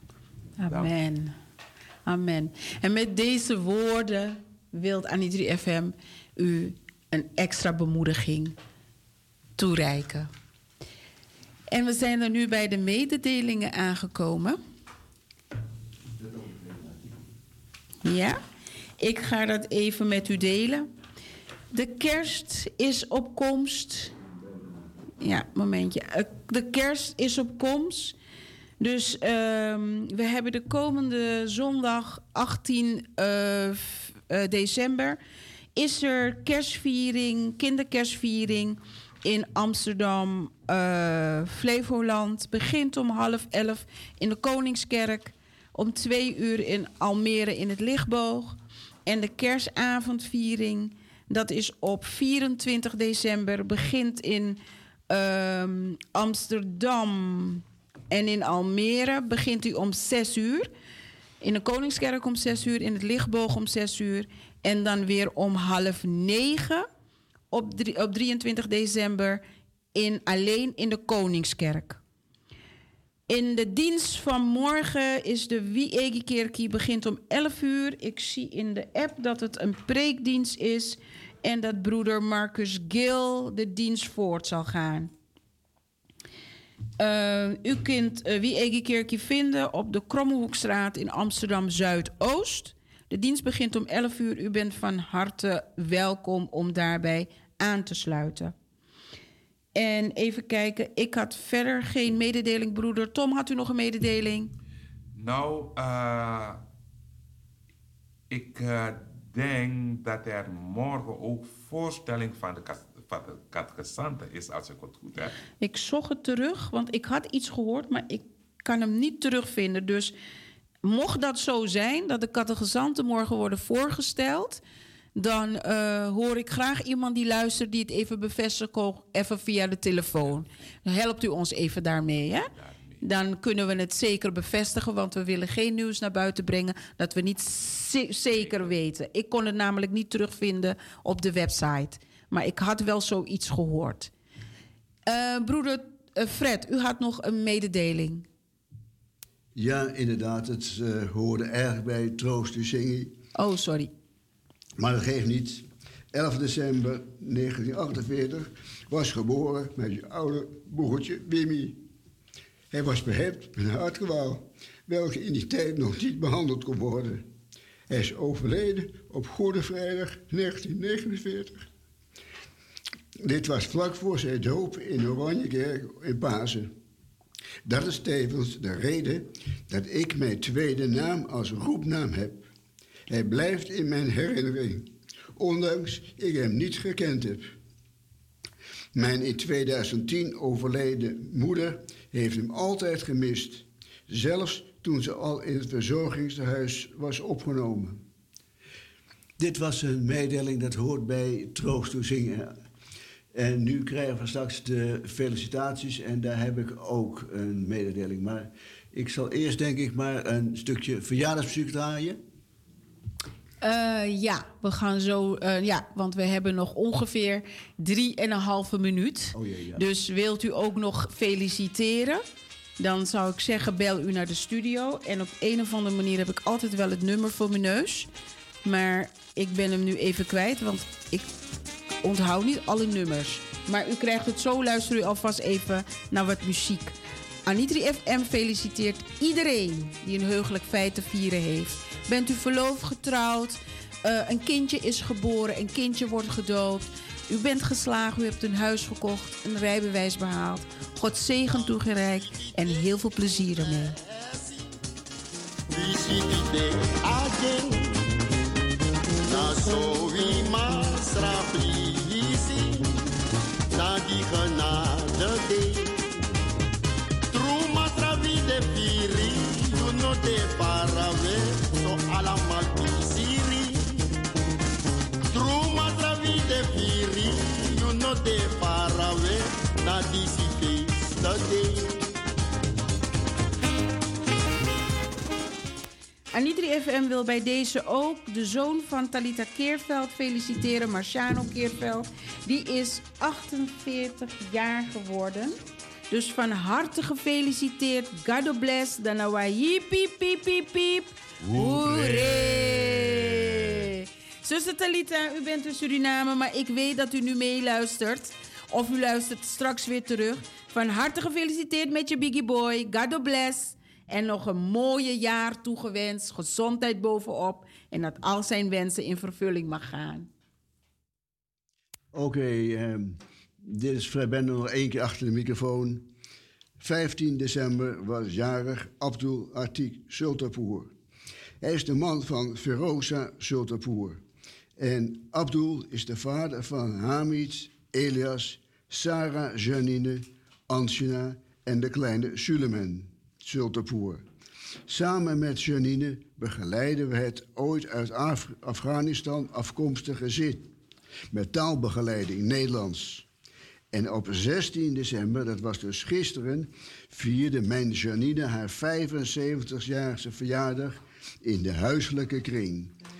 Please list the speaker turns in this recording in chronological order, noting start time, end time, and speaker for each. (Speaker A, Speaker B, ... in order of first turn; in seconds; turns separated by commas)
Speaker A: 0.6-1.3, Speaker B: 0.7-0.9, Speaker A: 2.1-8.6, Speaker A: 9.6-10.3, Speaker A: 11.7-14.6, Speaker A: 18.0-18.4, Speaker A: 19.0-20.9, Speaker A: 21.7-24.1, Speaker A: 25.2-28.2, Speaker A: 28.8-35.2, Speaker A: 35.8-60.7, Speaker A: 61.4-66.9, Speaker A: 67.5-69.4, Speaker A: 69.9-72.0, Speaker A: 73.3-85.1, Speaker A: 87.0-98.5, Speaker A: 99.8-104.5, Speaker B: 105.2-106.6, Speaker B: 108.3-115.4, Speaker A: 115.6-120.2, Speaker A: 120.8-124.6, Speaker A: 125.2-144.1, Speaker B: 132.3-133.1, Speaker A: 145.1-148.3, Speaker C: 149.6-153.2, Speaker A: 153.3-153.9, Speaker C: 154.8-161.8, Speaker C: 162.7-167.2, Speaker C: 167.9-171.7, Speaker C: 173.2-176.7, Speaker C: 177.7-182.4, Speaker C: 183.1-187.5, Speaker C: 188.9-198.0, Speaker C: 199.4-202.5, Speaker C: 203.3-212.2, Speaker A: 213.6-222.2, Speaker C: 219.3-219.8, Speaker A: 222.8-228.1, Speaker A: 228.6-231.3, Speaker A: 232.0-254.0, Speaker D: 255.7-258.1, Speaker D: 259.2-262.9, Speaker D: 263.7-266.0, Speaker D: 267.3-274.0, Speaker D: 275.3-282.1, Speaker A: 286.3-295.6, Speaker A: 296.1-320.3, Speaker C: 322.1-326.1, Speaker C: 326.8-330.9, Speaker C: 331.6-334.2, Speaker C: 334.8-344.2, Speaker C: 344.9-350.7, Speaker C: 351.3-353.3, Speaker C: 353.9-363.0